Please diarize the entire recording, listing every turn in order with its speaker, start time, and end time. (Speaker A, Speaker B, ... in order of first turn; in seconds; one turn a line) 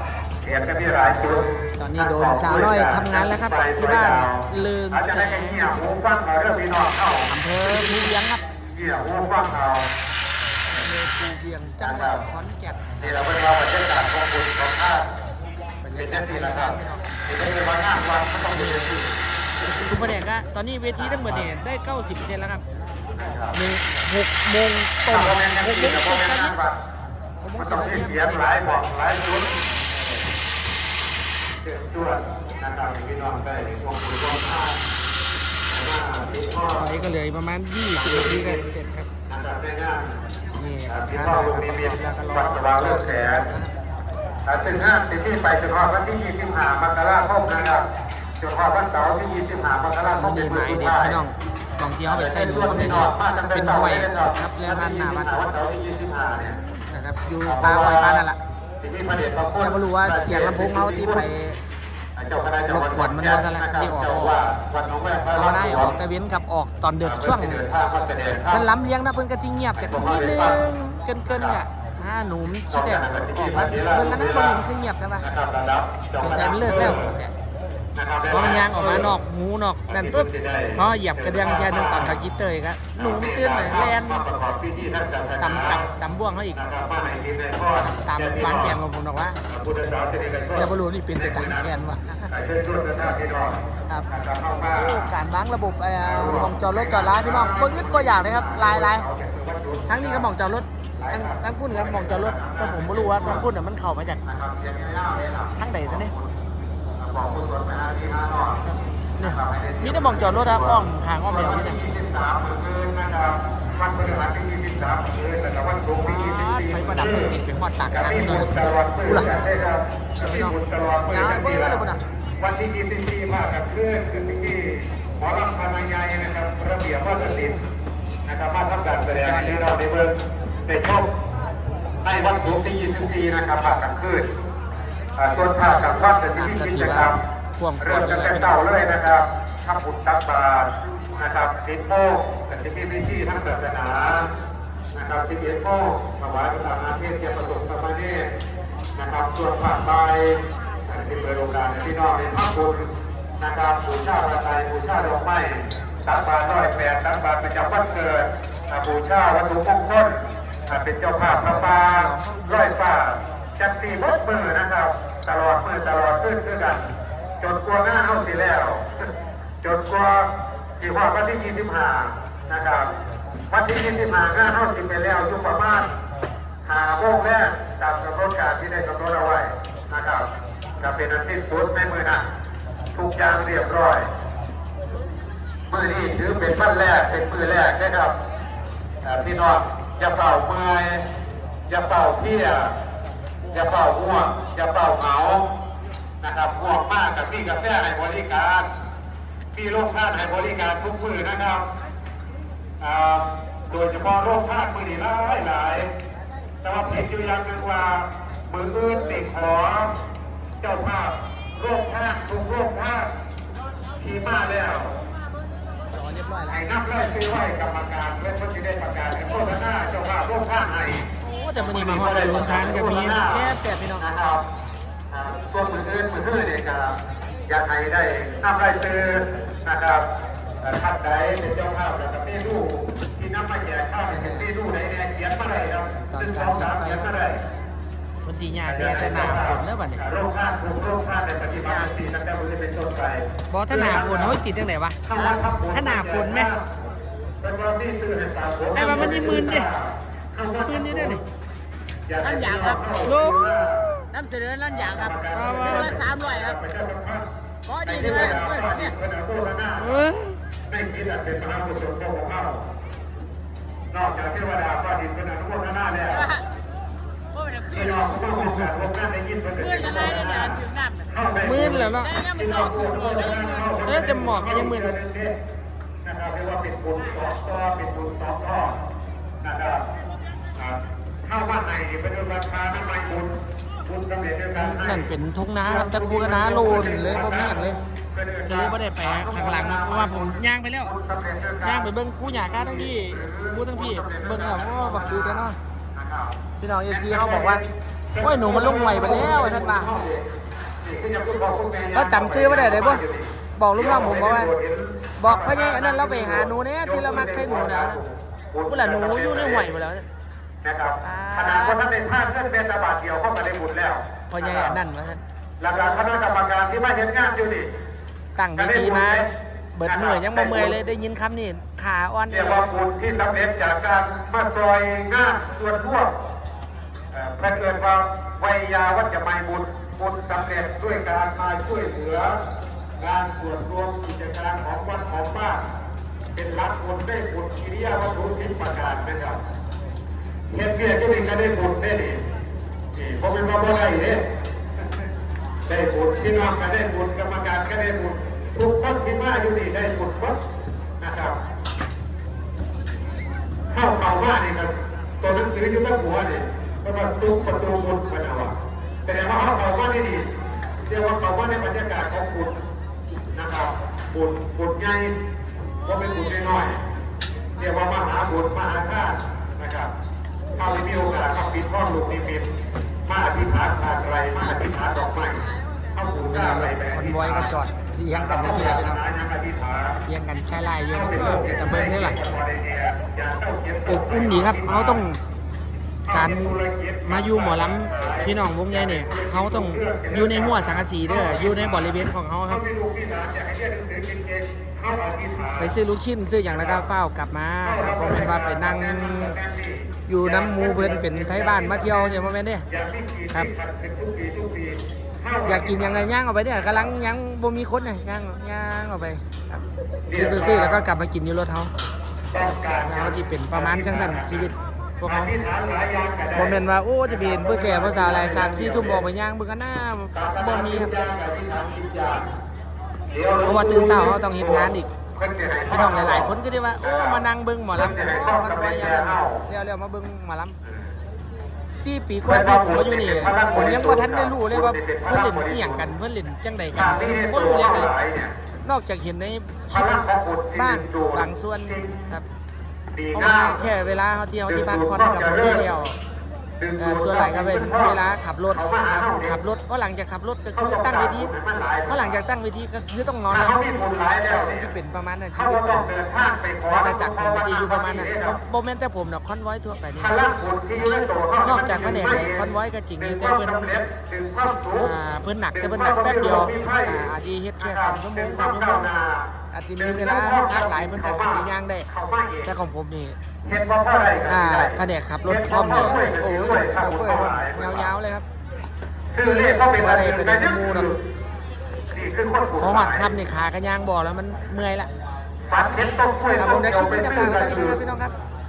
Speaker A: 0.4-9.9
Speaker B: 1.8-5.6
Speaker B: 7.3-8.4
Speaker B: 10.7-13.2
Speaker A: 11.8-12.3
Speaker A: 13.0-15.1
Speaker B: 15.8-17.1
Speaker A: 16.0-19.1
Speaker B: 18.4-18.9
Speaker B: 19.6-22.6
Speaker A: 20.9-21.5
Speaker A: 23.1-23.6
Speaker B: 23.5-26.6
Speaker A: 25.1-26.8
Speaker B: 27.4-28.4
Speaker A: 27.6-29.8
Speaker A: 31.6-34.8
Speaker A: 35.7-36.9
Speaker B: 36.8-39.1
Speaker A: 37.9-38.6
Speaker A: 39.3-40.2
Speaker B: 40.5-43.8
Speaker A: 40.9-43.5
Speaker A: 44.5-47.9
Speaker A: 48.4-51.2
Speaker B: 50.0-55.4
Speaker A: 52.0-56.6
Speaker B: 56.7-58.4
Speaker A: 57.4-58.3
Speaker A: 58.8-61.3
Speaker B: 59.6-61.6
Speaker A: 62.1-66.0
Speaker B: 62.7-64.4
Speaker B: 65.3-67.6
Speaker A: 67.0-68.7
Speaker B: 68.5-75.3
Speaker A: 69.8-70.6
Speaker A: 71.3-71.6
Speaker A: 72.7-74.6
Speaker A: 75.2-77.1
Speaker B: 76.2-77.3
Speaker A: 78.0-79.1
Speaker B: 78.3-84.2
Speaker A: 79.9-82.2
Speaker A: 82.9-85.9
Speaker B: 85.4-86.7
Speaker A: 86.5-88.8
Speaker B: 87.8-89.4
Speaker A: 89.5-91.7
Speaker B: 90.6-92.3
Speaker A: 92.3-95.1
Speaker B: 94.7-99.0
Speaker A: 96.0-100.3
Speaker B: 99.9-104.2
Speaker A: 101.0-103.5
Speaker A: 104.2-106.4
Speaker B: 105.5-106.1
Speaker A: 107.0-108.6
Speaker B: 108.6-111.8
Speaker A: 109.2-121.9
Speaker B: 116.0-119.4
Speaker B: 120.2-120.5
Speaker B: 121.1-122.0
Speaker A: 122.4-127.6
Speaker A: 128.2-131.1
Speaker B: 129.1-129.7
Speaker A: 132.0-134.3
Speaker A: 135.2-137.2
Speaker B: 136.1-138.6
Speaker A: 137.8-144.3
Speaker A: 144.9-148.3
Speaker A: 148.9-169.1
Speaker B: 161.2-163.0
Speaker A: 169.6-172.9
Speaker A: 173.5-175.9
Speaker A: 176.6-182.2
Speaker A: 182.9-184.1
Speaker A: 185.7-188.2
Speaker A: 189.0-191.1
Speaker A: 191.7-192.8
Speaker A: 193.5-195.5
Speaker A: 196.2-198.7
Speaker A: 199.5-201.7
Speaker A: 202.8-205.9
Speaker A: 206.6-209.9
Speaker A: 210.6-213.1
Speaker A: 213.9-214.9
Speaker B: 215.9-216.6
Speaker A: 216.4-224.4
Speaker B: 221.2-224.1
Speaker A: 225.1-230.1
Speaker A: 230.6-237.4
Speaker B: 234.1-234.5
Speaker B: 235.9-237.1
Speaker B: 238.2-240.0
Speaker A: 238.7-244.4
Speaker B: 243.5-245.0
Speaker A: 245.0-246.6
Speaker B: 245.7-246.5
Speaker A: 247.4-251.2
Speaker B: 248.7-249.7
Speaker B: 250.6-251.2
Speaker A: 252.1-253.9
Speaker C: 252.2-252.9
Speaker B: 253.0-254.1
Speaker C: 253.9-256.6
Speaker A: 254.7-257.3
Speaker B: 255.3-256.0
Speaker C: 257.6-258.9
Speaker A: 257.8-260.0
Speaker B: 259.8-260.4
Speaker A: 260.7-262.6
Speaker A: 263.9-266.3
Speaker C: 266.1-266.4
Speaker C: 267.3-268.0
Speaker A: 267.7-275.4
Speaker B: 268.3-268.6
Speaker C: 269.6-271.1
Speaker B: 271.4-272.1
Speaker C: 271.9-273.8
Speaker B: 273.8-274.9
Speaker A: 276.0-278.8
Speaker A: 279.4-279.9
Speaker A: 280.6-285.1
Speaker B: 284.5-287.8
Speaker A: 285.6-300.3
Speaker B: 288.4-290.9
Speaker B: 291.6-295.6
Speaker B: 296.6-297.6
Speaker B: 298.2-299.9
Speaker A: 300.8-309.7
Speaker B: 301.9-303.0
Speaker B: 303.6-304.5
Speaker B: 305.2-308.0
Speaker B: 308.6-310.1
Speaker A: 310.6-314.8
Speaker B: 311.0-311.8
Speaker B: 314.3-315.2
Speaker A: 315.6-317.7
Speaker B: 318.4-322.7
Speaker A: 318.6-319.3
Speaker A: 319.8-320.8
Speaker A: 322.3-326.1
Speaker A: 327.1-332.4
Speaker A: 333.0-335.6
Speaker A: 336.3-339.4
Speaker A: 340.5-342.3
Speaker A: 342.9-344.3
Speaker A: 345.6-350.4
Speaker A: 351.0-351.4
Speaker A: 353.7-358.5
Speaker A: 359.0-360.3
Speaker A: 360.8-362.6
Speaker A: 363.3-365.1
Speaker A: 365.8-366.8
Speaker A: 367.6-369.9
Speaker A: 370.6-372.5
Speaker A: 373.1-380.0
Speaker B: 376.2-379.0
Speaker B: 380.1-382.2
Speaker A: 380.9-385.1
Speaker B: 383.9-385.2
Speaker A: 386.1-395.8
Speaker B: 386.1-392.6
Speaker B: 395.6-399.4
Speaker A: 396.5-396.9
Speaker A: 397.6-406.1
Speaker B: 400.1-402.6
Speaker B: 405.4-411.7
Speaker A: 410.1-410.8
Speaker A: 412.3-419.1
Speaker B: 412.7-415.3
Speaker B: 416.3-420.9
Speaker A: 420.1-422.3
Speaker A: 423.1-429.4
Speaker B: 423.4-424.9
Speaker B: 425.7-430.6
Speaker B: 431.7-437.9
Speaker A: 432.2-435.9
Speaker A: 436.7-438.3
Speaker B: 438.6-440.0
Speaker A: 439.7-442.0
Speaker B: 440.5-442.3
Speaker A: 442.9-443.6
Speaker B: 443.1-446.0
Speaker A: 444.4-445.7
Speaker A: 446.6-449.4
Speaker B: 446.8-451.3
Speaker A: 450.5-452.2
Speaker B: 451.9-453.6
Speaker A: 453.3-454.7
Speaker B: 454.3-455.8
Speaker A: 455.3-458.4
Speaker B: 456.7-460.2
Speaker A: 459.9-464.9
Speaker B: 461.4-463.7
Speaker B: 464.8-468.9
Speaker A: 465.5-472.5
Speaker B: 469.5-471.9
Speaker B: 472.4-473.2
Speaker A: 473.4-477.9
Speaker B: 474.2-478.2
Speaker A: 479.1-481.0
Speaker B: 479.8-480.9
Speaker A: 481.9-483.1
Speaker B: 482.6-484.9
Speaker A: 485.5-487.8
Speaker B: 486.4-488.1